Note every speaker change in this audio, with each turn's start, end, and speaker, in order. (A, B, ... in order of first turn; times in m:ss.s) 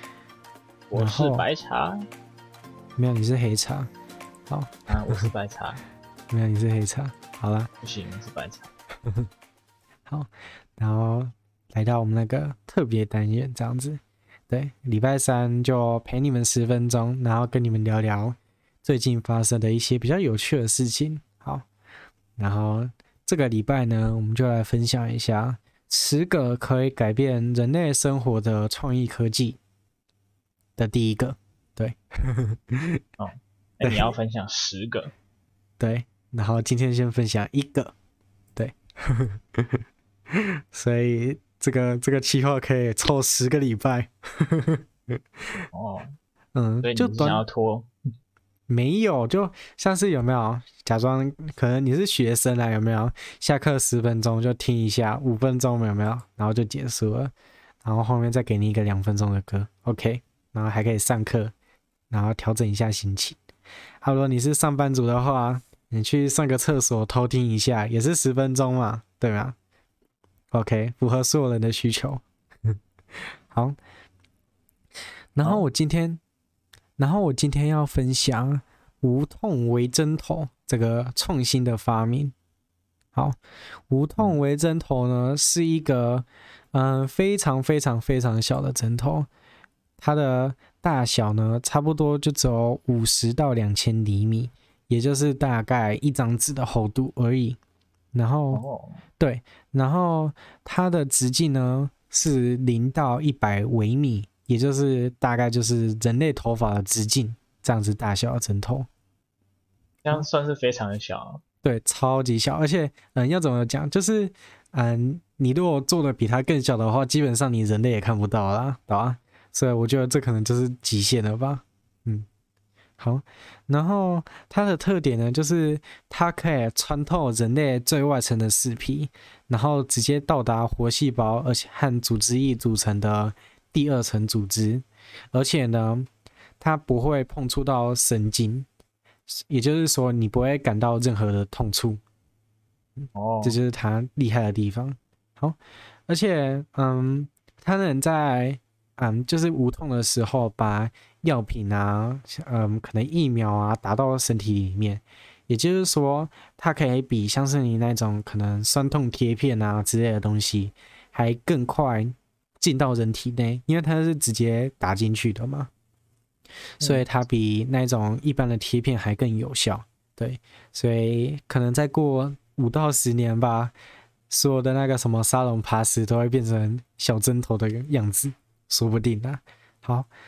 0:00.9-0:02.0 A
0:00.9-0:01.5 B
0:03.0-0:03.9 B
0:04.5-0:05.3 B
0:04.9-0:05.8 A
0:06.3-0:07.7 B
0:07.8-0:08.7 A
0:10.1-0:21.7 B
0:22.4-0:29.6 B
0:30.8-0:33.0 B
0:33.2-0:35.1 A
0:33.8-0:34.1 B
0:35.8-0:37.9 B
0:38.6-0:45.6 B
0:45.7-0:46.2 A
0:46.5-0:47.4 B
0:46.8-0:47.9 A
0:48.7-0:57.3 B
0:57.8-1:01.5 B
1:02.1-1:03.4 B
1:04.0-1:09.6 B
1:10.5-1:12.8 B
1:13.5-1:13.8 B
1:15.3-1:16.2 B
1:17.0-1:22.3 B
1:23.9-1:29.3 B
1:30.0-1:37.6 B
1:38.1-1:38.6 B
1:38.5-1:39.0 A
1:39.2-1:48.9 B
1:50.0-1:51.4 A
1:51.6-2:02.3 B
2:03.0-2:16.1 B
2:16.6-2:18.7 B
2:19.3-2:22.0 B
2:23.0-2:45.7 B
2:23.1-2:23.6 A
2:46.8-2:47.1 A
2:46.8-2:53.7 B
2:54.3-3:00.1 B